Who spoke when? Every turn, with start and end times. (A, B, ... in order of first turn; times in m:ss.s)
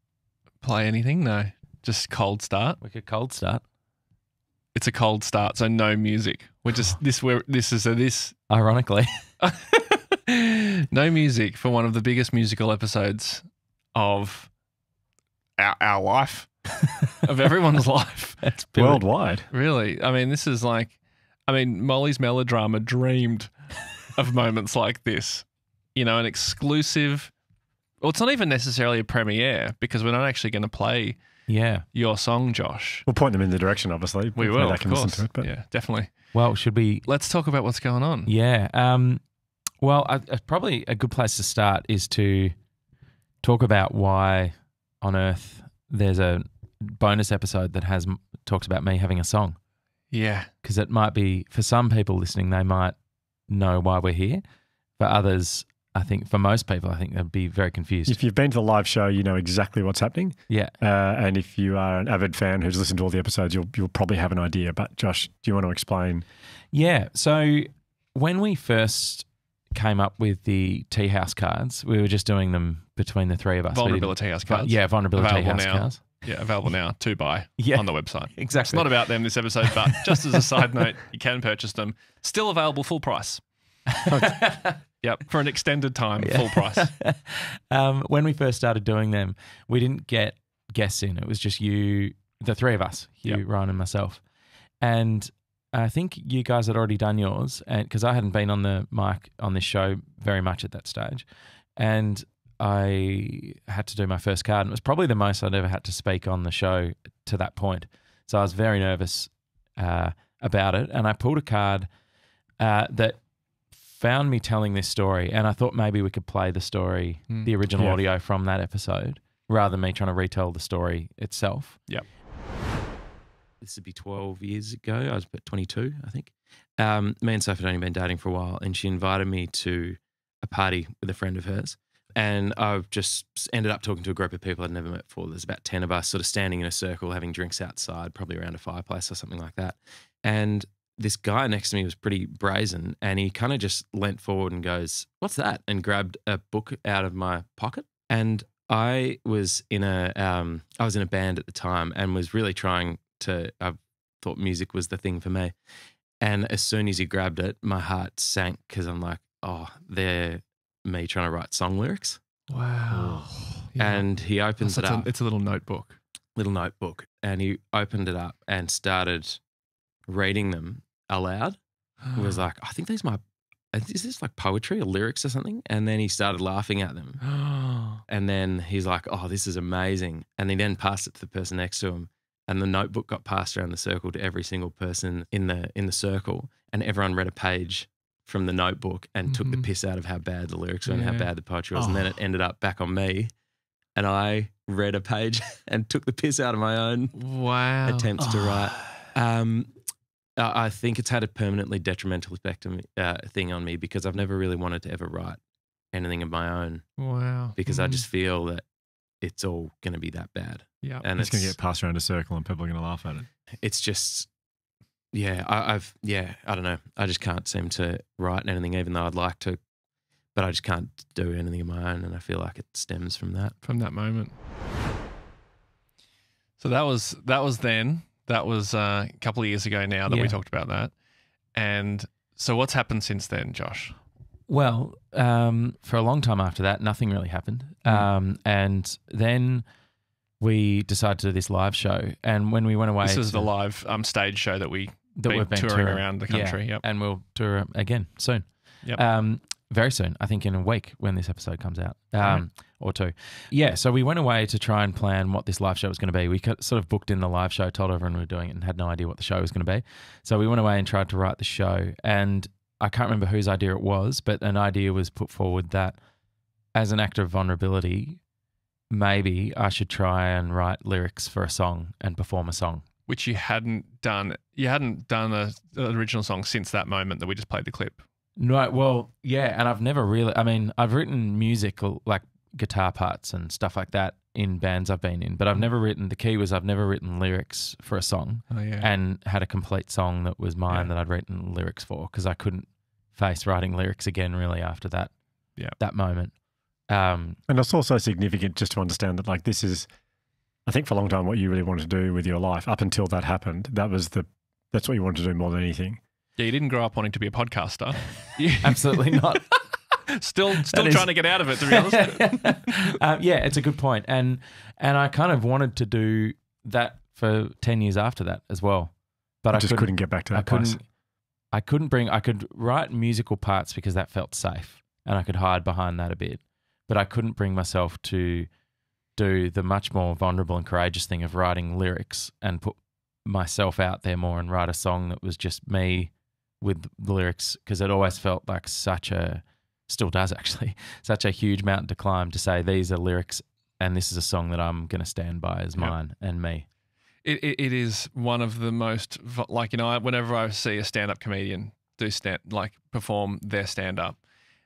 0:00.6-0:02.8 A
0:02.8-0:03.6 B
0:04.7-0:08.4 A
0:08.5-0:09.3 B
0:09.4-0:14.5 A
0:15.6-0:16.5 A
0:16.8-0:17.2 B
0:17.2-0:18.4 A
0:18.4-0:19.0 B
0:18.8-0:19.5 C
0:19.5-0:27.3 A
0:28.0-0:33.0 A
0:31.5-0:31.8 B
0:33.0-0:35.5 C
0:34.4-0:36.3 A
0:36.3-0:37.1 B
0:37.0-0:38.3 A
0:38.2-0:39.2 B
0:39.8-0:42.5 B
0:43.4-0:49.6 B
0:50.1-0:50.5 A
0:50.6-0:52.9 B
0:53.5-0:54.4 B
0:55.0-0:58.2 B
0:58.0-1:06.2 C
1:00.5-1:00.7 B
1:06.7-1:16.2 B
1:13.7-1:23.4 A
1:17.6-1:19.1 B
1:19.7-1:20.2 B
1:23.9-1:24.8 B
1:24.1-1:24.4 C
1:25.0-1:26.9 A
1:26.2-1:34.2 B
1:34.8-1:51.9 B
1:52.6-1:53.2 B
1:53.8-2:01.9 B
1:57.3-1:57.9 A
2:03.6-2:35.5 B
2:36.2-2:42.2 B
2:42.5-2:44.1 A
2:43.0-2:45.1 B
2:44.6-2:46.0 A
2:46.4-2:49.4 B
2:50.1-2:51.6 B
2:52.0-2:52.4 A
2:52.1-2:53.2 B
2:53.7-2:57.2 B
2:57.2-2:58.0 A
2:58.1-3:13.3 B
3:09.3-3:09.7 A
3:10.8-3:11.3 A
3:14.0-3:17.2 B
3:17.1-3:19.0 A
3:17.8-3:19.7 B
3:20.4-3:25.4 B
3:25.9-3:27.0 B
3:27.0-3:28.0 A
3:27.5-3:28.6 B
3:29.2-3:31.6 B
3:31.2-3:33.3 C
3:33.6-3:34.3 B
3:35.1-3:39.6 B
3:40.3-3:43.6 B
3:43.6-3:44.3 A
3:46.6-3:50.9 A
3:50.0-3:50.4 B
3:51.5-3:54.0 A
3:54.5-3:59.6 B
4:00.4-4:03.5 B
4:03.0-4:06.8 A
4:05.2-4:26.0 B
4:26.7-4:28.2 B
4:28.9-4:32.8 B
4:33.1-4:38.0 A
4:38.4-4:55.1 B
4:48.5-4:48.9 A
4:55.7-4:56.3 B
4:56.9-4:57.4 B
4:57.5-4:59.9 C
5:00.6-5:06.0 C
5:06.4-5:09.5 A
5:08.6-5:09.5 B
5:10.2-5:12.8 A
5:10.6-5:18.9 B
5:19.4-5:20.8 B
5:19.5-5:20.8 C
5:21.5-5:28.5 B
5:29.2-5:46.6 B
5:47.2-5:54.2 A